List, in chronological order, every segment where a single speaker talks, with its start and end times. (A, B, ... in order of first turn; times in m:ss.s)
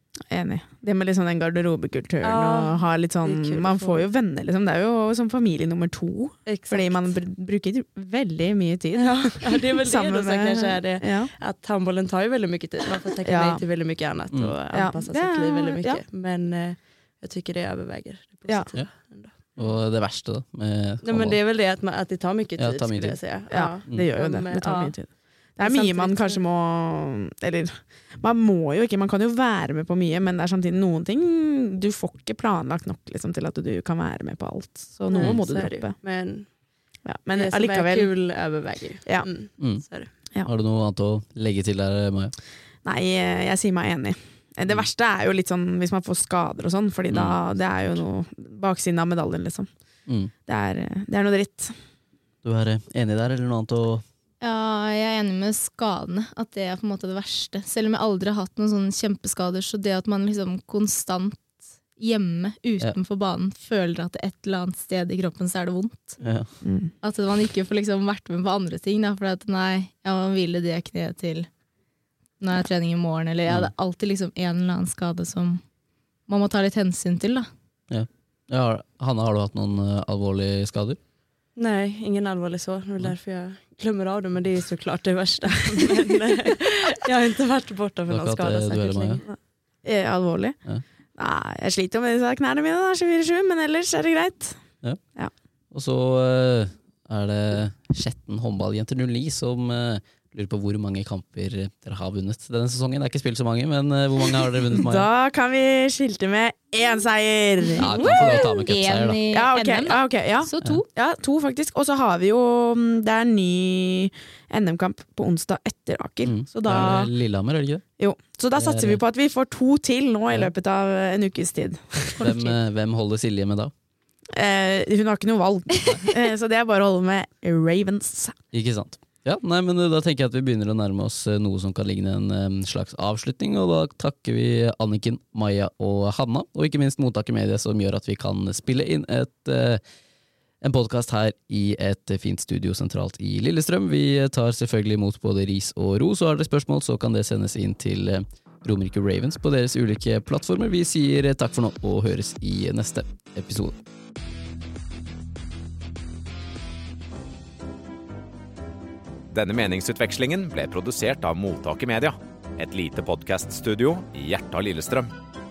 0:00.3-0:11.3 A
0:02.2-0:04.0 B
0:06.4-0:07.1 B
0:09.0-0:19.8 B
0:13.2-0:13.6 A
0:14.7-0:16.0 A
0:19.6-0:21.4 C
0:21.0-0:24.9 B
0:22.6-0:23.2 C
0:23.5-0:36.0 A
0:25.6-0:26.4 B
0:35.1-0:36.6 B
0:37.0-0:38.3 A
0:37.3-0:40.1 B
0:39.0-0:39.3 A
0:39.6-0:42.3 C
0:42.8-0:49.7 A
0:47.1-0:47.4 C
0:50.4-0:51.7 A
0:52.4-0:54.0 C
0:54.4-1:06.2 D
1:06.2-1:06.5 C
1:06.6-1:06.9 A
1:07.0-1:11.5 D
1:12.4-1:15.6 D
1:16.3-1:17.5 D
1:17.9-1:21.0 C
1:21.6-1:29.4 B
1:28.1-1:29.2 C
1:29.3-1:30.6 A
1:31.2-1:34.6 A
1:35.7-1:45.1 C
1:44.8-1:48.5 A
1:47.8-1:49.2 C
1:47.8-1:50.9 D
1:49.3-1:57.1 A
1:56.2-1:57.8 C
1:58.0-2:02.3 A
1:58.5-1:59.0 C
2:02.2-2:03.7 C
2:02.2-2:02.5 D
2:04.3-2:08.4 A
2:08.5-2:19.8 C
2:20.6-2:33.8 C
2:39.3-2:45.1 E